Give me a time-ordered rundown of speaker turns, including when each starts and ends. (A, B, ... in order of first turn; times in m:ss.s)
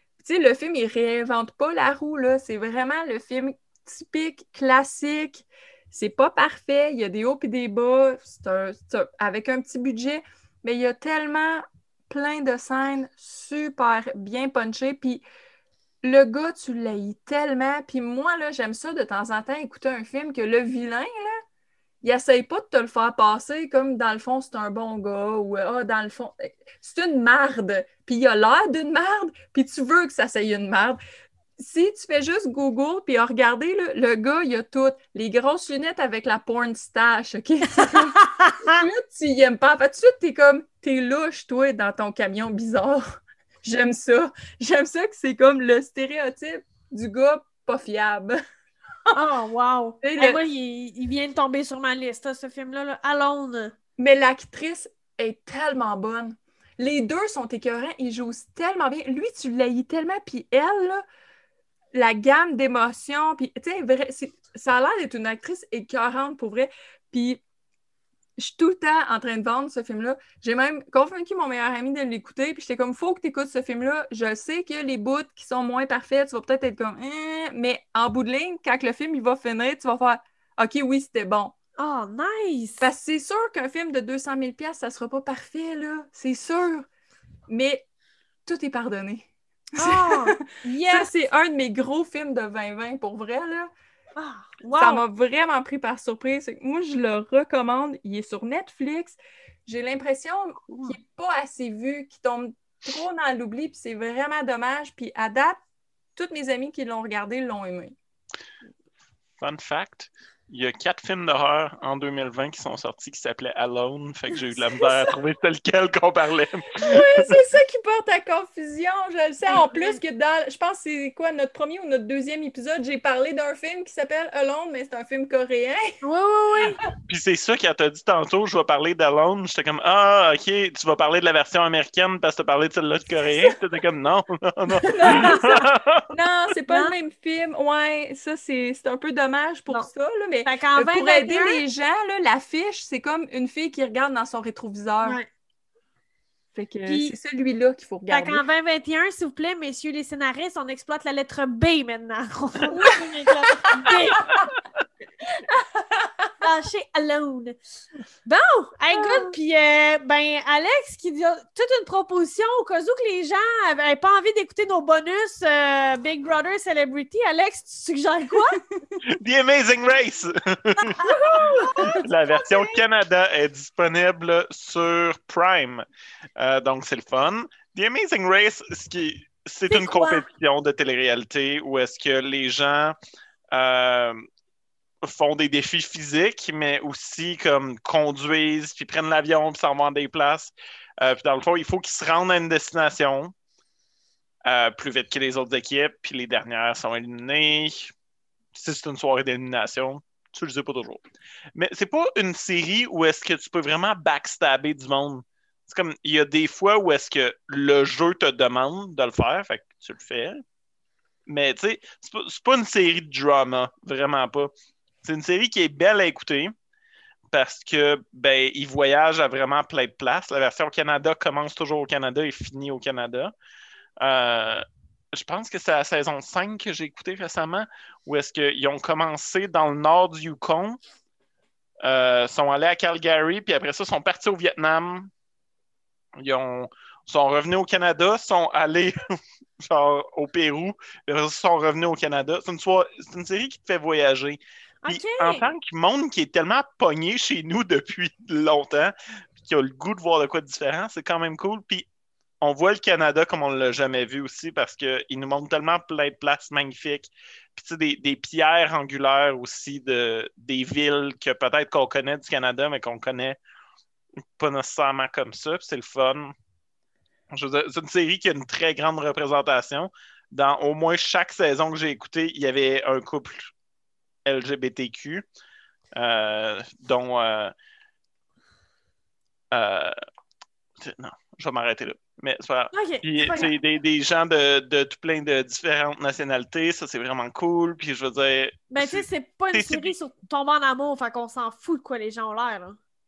0:00.2-0:15.2 A
0:16.0-0:21.4 A
0:22.0-0:31.0 A
0:31.6-0:43.0 A
0:37.8-0:38.8 B
0:43.6-0:48.4 A
0:49.1-0:53.7 B
0:50.0-0:50.4 A
0:54.0-1:01.0 A
1:01.9-1:07.4 A
1:08.4-1:21.5 A
1:21.8-1:22.8 B
1:22.8-1:26.9 A
1:27.5-1:27.8 A
1:28.4-1:33.7 A
1:29.8-1:31.1 B
1:34.2-1:35.0 B
1:34.7-1:45.6 A
1:46.2-1:47.9 A
1:49.4-1:57.3 C
1:56.8-2:06.0 A
1:59.4-2:00.0 B
2:06.0-2:06.8 B
2:07.1-2:16.1 C
2:14.9-2:25.2 A
2:15.0-2:15.3 B
2:20.4-2:21.6 B
2:26.5-2:28.4 A
2:26.8-2:27.1 B
2:28.1-2:34.4 B
2:33.5-2:34.4 A
2:35.5-2:36.3 A
2:36.4-2:37.5 B
2:38.2-2:48.6 B
2:38.9-2:39.3 A
2:49.1-2:51.1 C
2:51.0-2:52.8 B
2:51.1-2:52.0 A
2:51.8-2:55.8 C
2:56.4-3:03.0 C
2:59.7-3:00.2 B
3:03.5-3:04.2 C
3:05.0-3:13.3 C
3:14.4-3:17.9 C
3:18.5-3:21.0 C
3:21.6-3:30.4 C
3:31.3-3:34.5 C
3:35.0-3:36.5 C
3:37.3-3:43.3 C
3:44.0-3:50.8 C
3:51.8-3:55.1 C
3:56.2-3:59.0 C
3:59.6-4:11.8 C
4:04.8-4:05.5 B
4:12.4-4:23.4 C
4:24.4-4:26.3 C
4:27.3-4:33.5 C
4:34.2-4:35.2 C
4:35.9-4:37.5 C
4:39.5-4:39.9 C
4:40.8-4:49.9 C
4:42.7-4:43.5 B
4:48.7-4:52.8 B